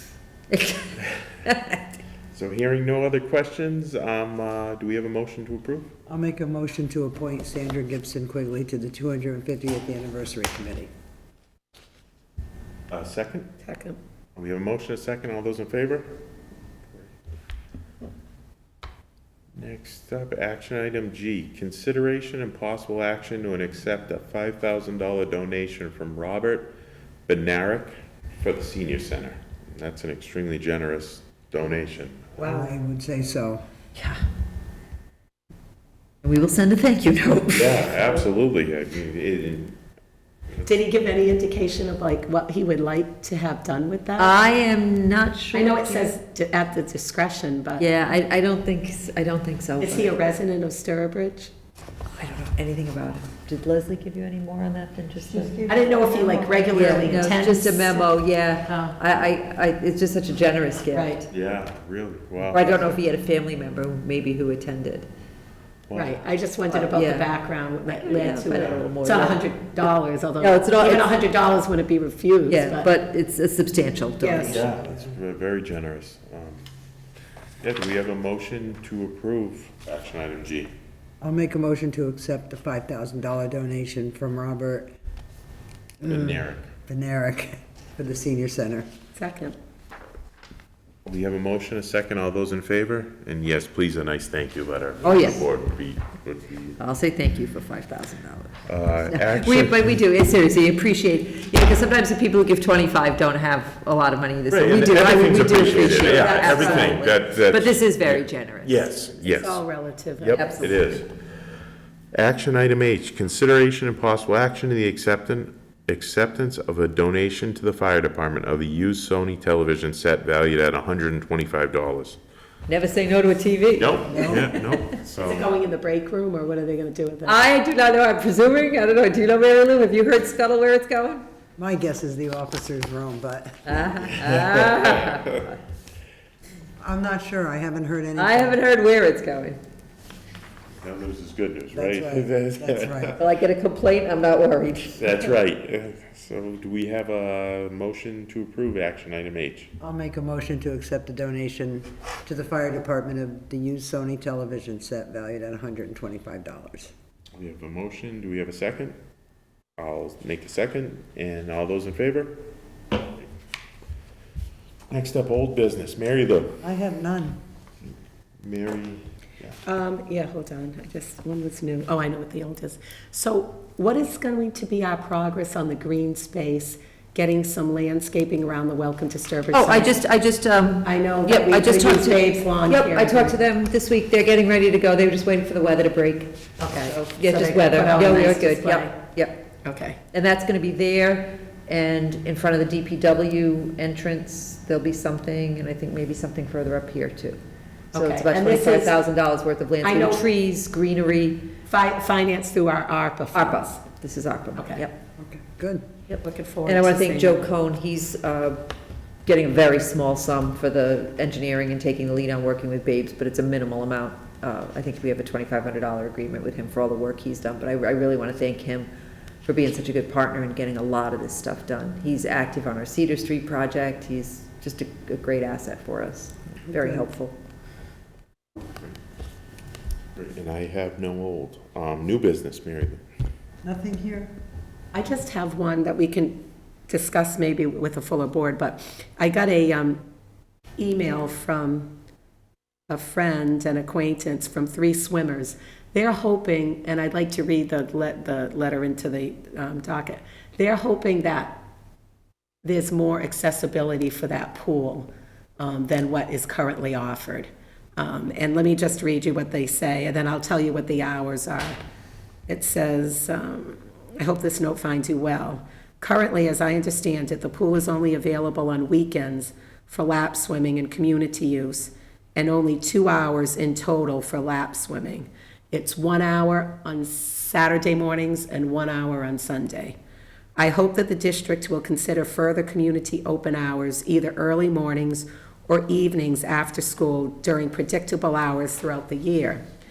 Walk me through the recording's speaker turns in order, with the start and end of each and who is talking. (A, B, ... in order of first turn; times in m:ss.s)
0:00.5-0:01.8 A
0:02.3-0:05.9 B
0:06.1-0:10.9 C
0:12.9-0:13.5 B
0:13.6-0:14.0 D
0:14.3-0:16.1 B
0:19.6-0:26.7 B
0:27.3-0:32.5 B
0:32.4-0:33.6 C
0:32.4-0:32.7 D
0:36.2-0:38.0 A
0:37.5-0:39.8 B
0:40.6-0:44.4 D
0:44.2-0:46.1 A
0:45.5-0:47.8 D
0:47.8-0:50.1 A
0:49.8-0:51.5 D
0:52.1-0:55.5 A
0:55.3-0:57.2 C
0:55.6-0:58.1 D
0:56.7-1:01.2 A
0:58.7-0:59.0 D
1:00.9-1:01.2 D
1:01.3-1:02.8 B
1:02.5-1:05.1 A
1:05.9-1:06.2 B
1:05.9-1:12.9 D
1:06.7-1:07.3 A
1:08.0-1:09.5 A
1:08.5-1:08.9 B
1:10.4-1:11.2 A
1:12.5-1:14.7 A
1:14.2-1:14.7 D
1:14.4-1:16.6 B
1:17.6-1:20.7 B
1:21.2-1:24.9 C
1:26.0-1:26.7 B
1:26.0-1:28.9 C
1:29.2-1:29.6 D
1:31.0-1:36.8 B
1:35.0-1:35.5 A
1:36.8-1:48.8 A
1:38.7-1:40.0 B
1:44.5-1:49.6 B
1:46.1-1:46.8 D
1:49.2-1:50.6 D
1:50.2-1:51.1 B
1:50.3-1:50.9 A
1:52.1-2:02.2 B
2:02.7-2:04.8 A
2:03.8-2:05.5 B
2:04.1-2:04.5 C
2:05.1-2:07.4 D
2:07.2-2:11.2 A
2:11.6-2:14.0 C
2:13.6-2:15.6 A
2:14.2-2:15.5 B
2:16.8-2:18.6 C
2:18.2-2:19.6 A
2:20.8-2:23.2 B
2:21.7-2:23.2 C
2:23.2-2:25.1 A
2:24.9-2:29.7 B
2:29.8-2:36.9 C
2:37.4-2:39.0 B
2:39.8-2:42.4 B
2:44.9-2:46.6 B
2:46.6-2:47.4 C
2:48.4-2:49.6 B
2:49.6-3:00.0 D
2:59.5-3:09.4 A
3:00.8-3:03.4 D
3:06.6-3:09.0 D
3:09.6-3:10.0 D
3:10.1-3:17.4 A
3:17.9-3:21.5 A
3:17.9-3:19.0 D
3:19.8-3:20.2 D
3:21.7-3:23.8 D
3:23.3-3:25.0 A
3:24.6-3:24.8 D
3:25.2-3:25.8 C
3:26.1-3:27.5 D
3:26.6-3:28.6 A
3:29.2-3:38.9 A
3:39.4-3:47.4 A
3:46.7-3:47.0 C
3:50.1-3:53.0 B
3:53.6-3:54.3 C
3:54.9-4:00.0 D
4:00.8-4:01.9 D
4:02.9-4:11.6 D
4:12.6-4:15.1 D
4:15.6-4:21.8 D
4:22.5-4:40.0 D
4:40.6-4:49.6 D